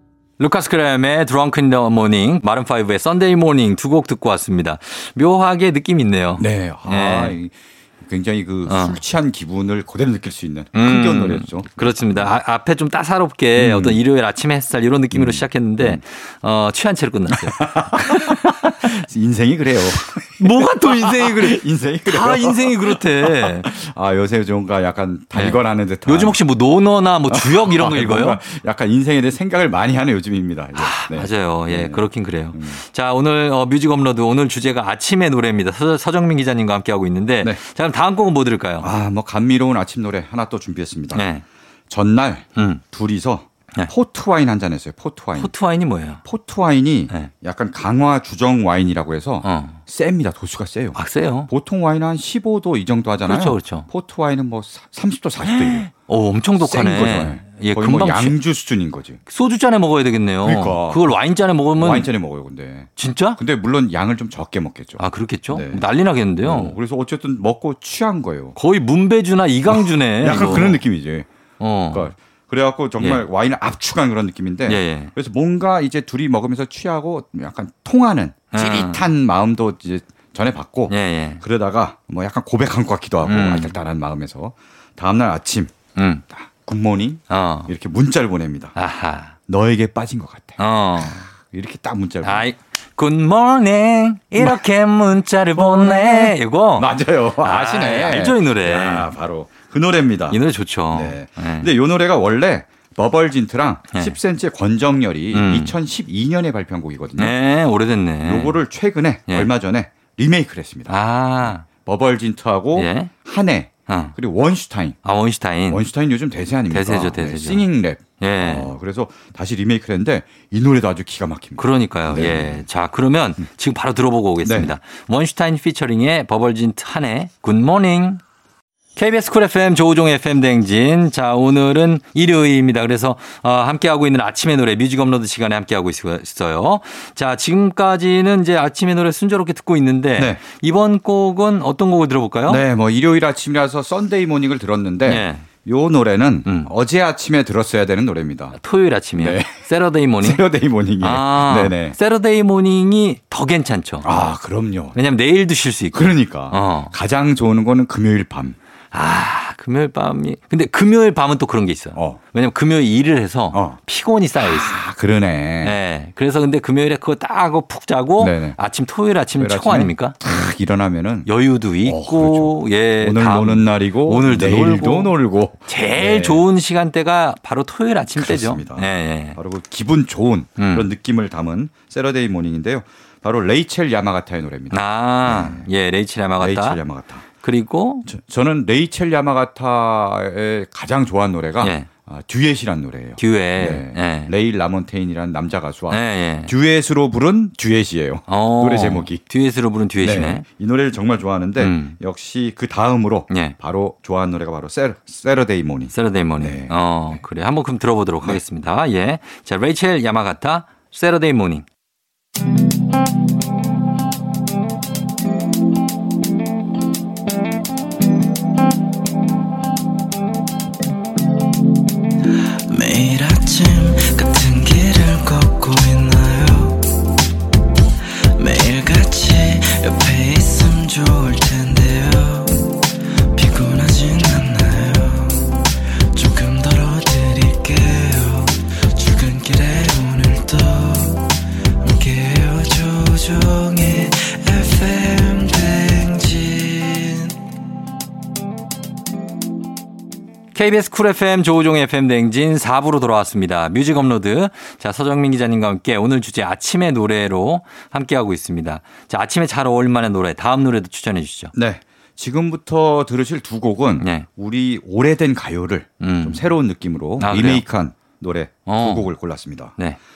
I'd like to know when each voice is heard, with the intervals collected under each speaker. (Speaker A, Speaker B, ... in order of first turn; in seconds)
Speaker A: 0.4-7.4, 8.7-9.0, 10.7-18.9, 20.4-23.7, 25.3-28.4, 30.8-38.9, 41.1-41.4, 42.5-42.8, 45.4-46.2, 49.4-49.8, 50.9-51.5, 53.2-53.9, 55.4-58.4, 59.3-62.1, 63.0-63.4, 65.0-66.8, 68.5-70.8, 71.6-72.1, 73.0-73.2, 74.7-75.1, 78.5-79.0, 80.9-81.4, 83.2-83.7, 86.0-86.2, 87.3-87.7, 88.8-89.3, 90.6-91.2, 92.2-99.1, 100.3-101.7, 105.3-105.7, 107.2-108.6, 110.9-111.7, 112.7-113.1, 113.9-114.1, 115.0-115.8, 116.7-117.7, 118.2-118.7, 121.6-128.2, 128.9-142.6, 145.1-145.5, 146.4-146.7, 148.5-150.4, 151.0-154.2, 154.9-156.9, 158.9-164.8, 165.6-170.2, 171.2-175.1, 175.7-179.4, 180.6-180.9, 184.7-186.8, 187.4-188.1, 191.6-191.9, 193.2-194.3, 195.9-196.5, 198.3-200.4, 201.6-202.0, 203.3-203.6, 205.9-211.7, 250.5-261.5, 264.0-264.3, 266.0-266.4, 267.2-267.6, 268.7-269.1
Speaker B: 6.4-11.9, 13.6-14.0, 15.1-16.0, 17.3-26.4, 27.3-32.8, 38.8-41.2, 41.9-45.5, 46.2-55.9, 56.6-59.2, 60.4-61.0, 61.8-65.8, 66.4-68.5, 69.7-71.3, 71.9-85.8, 86.3-88.8, 89.5-92.5, 96.8-100.4, 100.9-107.3, 108.2-111.0, 111.5-115.0, 115.7-122.6, 124.4-124.7, 140.2-140.4, 142.5-148.6, 149.2-149.7, 150.2-151.9, 154.0-155.0, 155.9-158.6, 161.9-162.2, 163.5-163.8, 164.4-165.8, 168.2-168.6, 169.3-171.3, 171.8-176.4, 178.2-185.7, 186.4-187.3, 188.1-199.2, 200.0-207.2, 261.5-269.7
Speaker C: 222.7-226.9, 228.4-232.7, 233.3-235.6, 236.1-241.3, 241.8-247.3